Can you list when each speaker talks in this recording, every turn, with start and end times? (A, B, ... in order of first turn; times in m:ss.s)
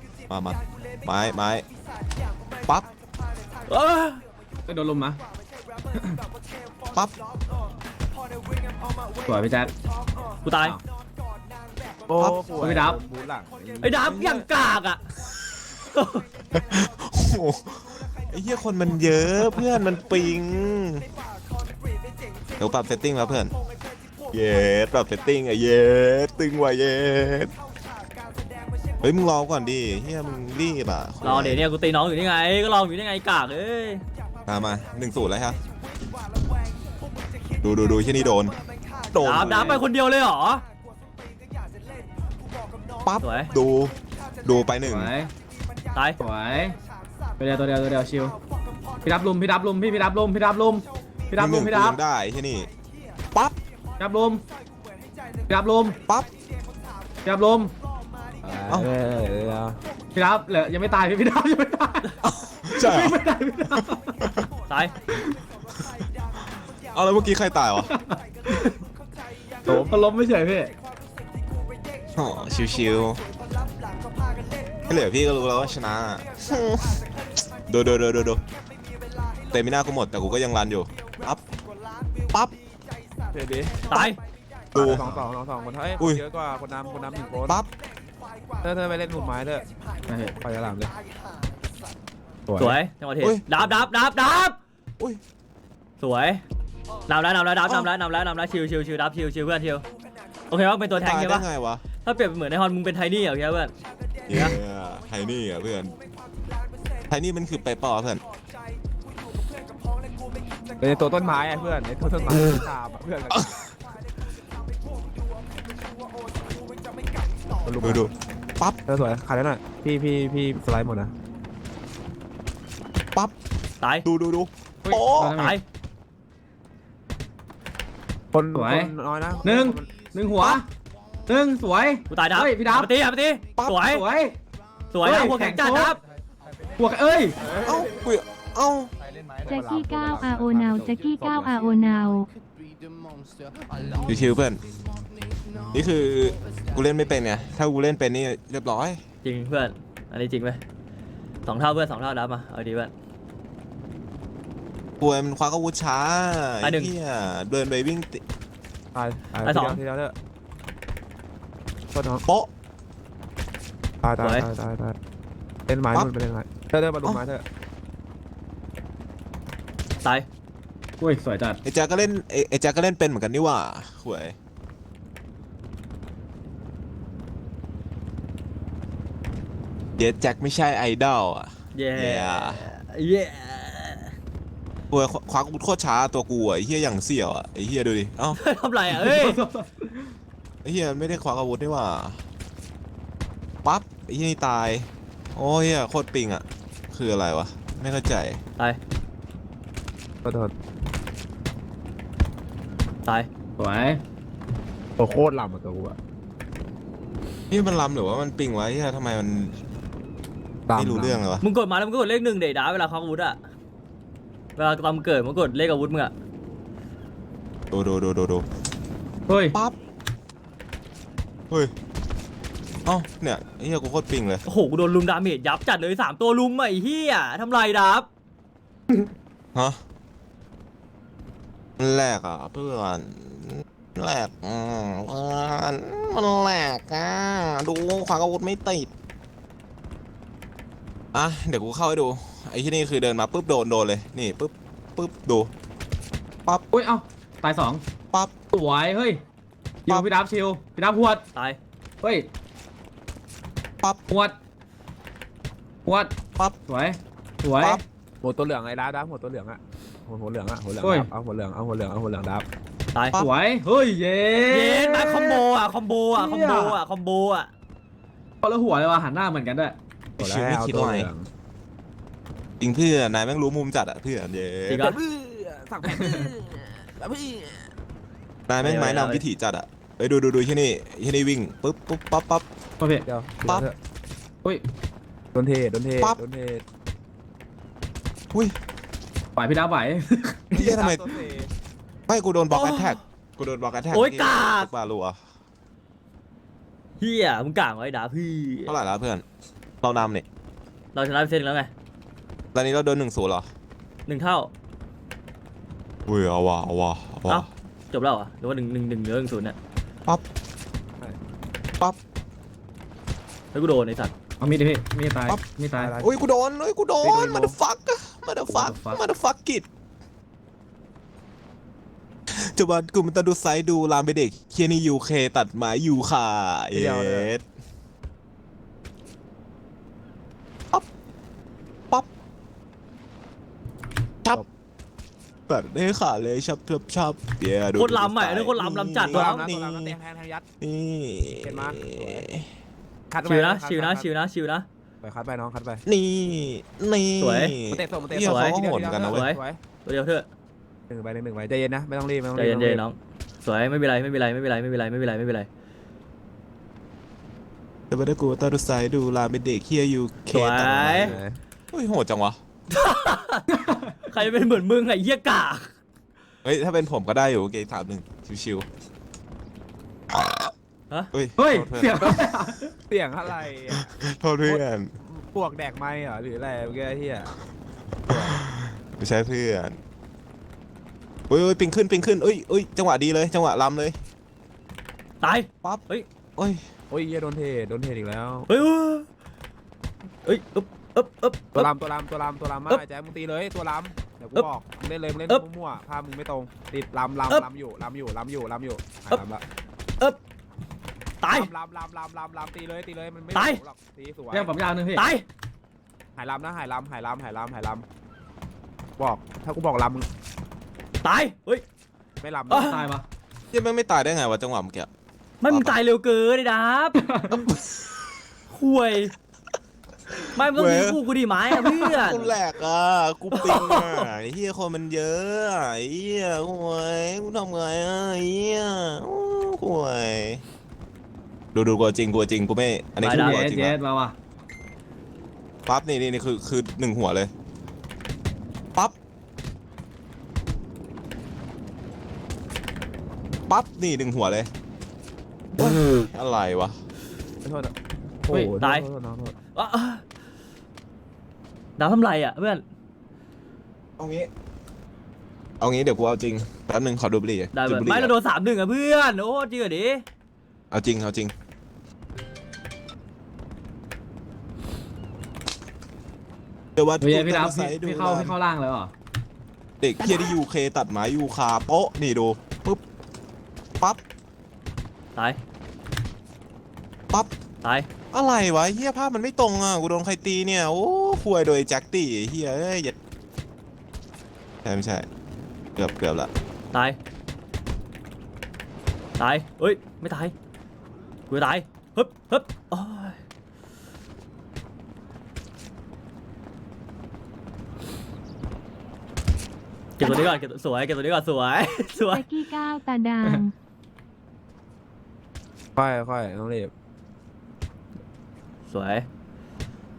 0:00.3-0:01.7 A
0:02.6-0:02.9 A
0:03.7-0:04.2 B
0:04.7-0:05.2 C
0:06.9-0:07.2 A
0:09.2-0:09.7 C
0:10.4-0:10.8 B
0:12.1-0:14.1 D
0:12.6-0:13.0 C
0:13.8-0:15.0 B
0:14.0-0:14.4 A
0:15.9-0:16.3 B
0:16.5-0:21.1 A
0:22.6-0:23.6 A
0:24.3-0:27.5 A
0:29.0-0:31.7 A
0:31.2-0:34.0 B
0:34.4-0:35.6 A
0:37.6-0:38.6 A
0:39.1-0:39.8 A
0:39.2-0:40.6 B
0:43.0-0:45.1 A
0:43.2-0:43.5 B
0:44.9-0:45.3 C
0:45.9-0:46.2 B
0:46.2-0:46.8 C
0:47.4-0:48.4 C
0:49.0-0:52.0 C
0:51.4-0:52.7 A
0:54.0-0:54.4 C
0:55.5-0:56.0 C
0:57.2-0:57.7 C
0:58.4-0:59.8 D
1:00.1-1:02.0 C
1:02.2-1:03.3 A
1:02.7-1:04.2 C
1:03.8-1:04.5 A
1:04.7-1:04.9 B
1:06.7-1:07.9 A
1:07.8-1:08.8 C
1:09.6-1:10.7 C
1:09.7-1:10.0 D
1:12.1-1:13.2 A
1:14.8-1:18.4 A
1:19.5-1:21.4 A
1:23.3-1:23.9 D
1:23.9-1:24.2 B
1:24.7-1:25.2 A
1:24.7-1:27.6 D
1:28.6-1:29.7 D
1:30.1-1:30.4 C
1:30.4-1:30.9 D
1:32.5-1:32.8 D
1:32.6-1:34.6 B
1:33.2-1:33.5 A
1:36.0-1:36.4 B
1:37.1-1:39.8 B
1:40.5-1:41.5 B
1:40.9-1:41.8 A
1:42.0-1:43.7 B
1:44.3-1:46.0 A
1:47.1-1:48.2 A
1:50.8-1:53.5 D
1:57.6-1:58.1 D
1:57.8-1:58.8 A
1:58.8-2:01.1 D
2:03.8-2:04.0 B
2:04.0-2:05.4 A
2:04.8-2:05.6 C
2:05.3-2:05.6 B
2:08.3-2:09.9 D
2:08.5-2:10.7 C
2:11.3-2:12.9 C
2:12.1-2:14.0 B
2:13.6-2:13.8 A
2:13.8-2:14.4 C
2:14.9-2:16.0 B
2:15.0-2:16.0 C
2:16.8-2:17.4 C
2:17.5-2:17.8 D
2:17.6-2:18.9 A
2:19.4-2:22.3 E
2:19.5-2:21.7 D
2:24.0-2:24.7 A
2:25.7-2:29.0 A
2:29.2-2:30.6 B
2:31.5-2:32.9 B
2:35.0-2:38.2 A
2:36.6-2:36.9 B
2:39.0-2:40.1 D
2:39.4-2:39.8 B
2:41.9-2:42.2 D
2:44.0-2:45.0 D
2:44.2-2:44.5 B
2:45.7-2:47.4 D
2:50.0-2:50.3 B
2:51.0-2:51.6 C
2:51.6-2:54.4 A
3:00.0-3:02.7 A
3:01.7-3:04.1 B
3:04.9-3:08.4 A
3:08.3-3:09.4 B
3:08.9-3:10.1 C
3:10.6-3:12.2 A
3:13.6-3:18.4 A
3:20.2-3:20.5 D
3:23.6-3:24.0 C
3:25.0-3:26.0 D
3:27.5-3:29.6 A
3:30.7-3:31.3 D
3:30.8-3:31.4 A
3:31.4-3:33.4 B
3:34.6-3:36.1 B
3:37.7-3:38.4 A
3:39.3-3:39.6 C
3:42.9-3:44.4 A
3:44.4-3:48.1 B
3:48.9-3:49.8 A
3:51.8-3:58.9 A
4:01.1-4:05.5 A
4:06.7-4:07.8 C
4:08.5-4:09.2 C
4:09.8-4:11.2 C
4:12.0-4:12.3 C
4:14.1-4:14.4 C
4:15.8-4:16.1 C
4:16.6-4:17.8 C
4:18.2-4:22.4 D
4:20.8-4:21.1 C
4:22.9-4:23.2 B
4:23.1-4:25.4 C
4:24.5-4:27.5 B
4:26.1-4:26.8 C
4:28.4-4:29.8 C
4:30.2-4:31.1 A
4:30.2-4:31.3 D
4:32.6-4:34.9 A
4:34.7-4:35.0 B
4:34.8-4:37.7 D
4:36.0-4:36.3 C
4:38.5-4:42.5 A
4:38.6-4:39.2 B
4:42.8-4:43.1 C
4:43.0-4:43.8 D
4:45.3-4:46.6 D
4:49.4-4:50.4 C
4:50.5-4:51.1 A
4:50.5-4:51.5 D
4:52.1-4:55.2 A
4:52.5-4:53.0 B
4:53.9-4:54.7 B
4:57.0-4:58.7 B
4:58.6-4:59.2 A
4:59.8-5:00.2 A
5:00.9-5:01.7 B
5:02.5-5:03.5 A
5:04.1-5:04.5 B
5:06.1-5:07.5 A
5:07.3-5:09.6 B
5:13.5-5:14.1 B
5:14.4-5:15.9 C
5:15.8-5:16.2 D
5:16.0-5:19.7 A
5:17.0-5:17.6 D
5:18.5-5:19.0 C
5:22.3-5:27.4 A
5:26.7-5:27.3 D
5:35.5-5:40.0 A
5:37.8-5:39.4 B
5:39.0-5:40.4 D
5:40.6-5:42.5 A
5:41.4-5:42.2 D
5:43.1-5:44.1 D
5:43.2-5:44.6 B
5:45.0-5:45.8 D
5:45.8-5:49.3 A
5:47.2-5:47.5 B
5:47.7-5:49.6 D
5:48.2-5:50.3 B
5:50.9-5:52.8 D
5:52.3-5:55.5 B
5:57.9-6:02.4 A
6:00.3-6:01.1 B
6:00.9-6:01.4 D
6:02.7-6:03.4 B
6:03.5-6:03.9 C
6:04.1-6:05.7 B
6:06.4-6:08.7 A
6:10.1-6:10.5 A
6:11.1-6:12.3 A
6:11.4-6:12.7 C
6:12.9-6:13.9 D
6:13.7-6:14.9 A
6:14.4-6:17.3 D
6:18.1-6:18.4 D
6:18.1-6:19.8 A
6:21.3-6:24.0 A
6:25.2-6:26.1 B
6:26.4-6:26.6 A
6:26.9-6:28.5 D
6:28.5-6:29.1 B
6:30.2-6:31.7 B
6:31.5-6:39.4 D
6:41.2-6:41.5 B
6:41.3-6:44.5 D
6:43.3-6:43.6 B
6:44.3-6:45.1 C
6:44.9-6:45.2 B
6:46.2-6:47.8 D
6:49.0-6:50.1 D
6:51.0-6:51.6 B
6:52.2-6:52.8 D
6:52.5-6:52.8 B
6:52.6-6:53.1 C
6:53.5-6:54.9 A
6:55.4-6:57.0 B
6:55.5-6:55.8 A
6:57.0-6:57.3 C
6:57.3-6:58.2 A
6:58.5-6:59.1 B
7:00.3-7:02.3 B
7:00.4-7:01.0 A
7:01.8-7:10.4 A
7:03.3-7:04.1 B
7:11.5-7:13.8 A
7:13.0-7:13.4 B
7:13.1-7:14.2 C
7:15.7-7:17.3 A
7:23.5-7:24.5 A
7:25.6-7:26.8 A
7:27.4-7:27.7 D
7:28.2-7:29.3 D
7:28.6-7:28.8 B
7:29.5-7:30.0 B
7:31.8-7:32.6 B
7:34.0-7:34.3 A
7:35.6-7:38.1 A
7:37.5-7:40.0 B
7:40.7-7:41.3 A
7:46.8-7:48.4 A
7:47.0-7:48.9 C
7:49.8-7:52.8 A
7:57.6-7:57.9 B
7:58.1-8:02.9 A
8:04.6-8:05.1 A
8:05.8-8:06.3 A
8:06.7-8:07.0 B
8:09.2-8:10.3 B
8:11.3-8:13.2 B
8:20.0-8:22.3 B
8:20.0-8:20.3 E
8:22.1-8:23.5 E
8:25.8-8:26.7 D
8:28.7-8:29.1 B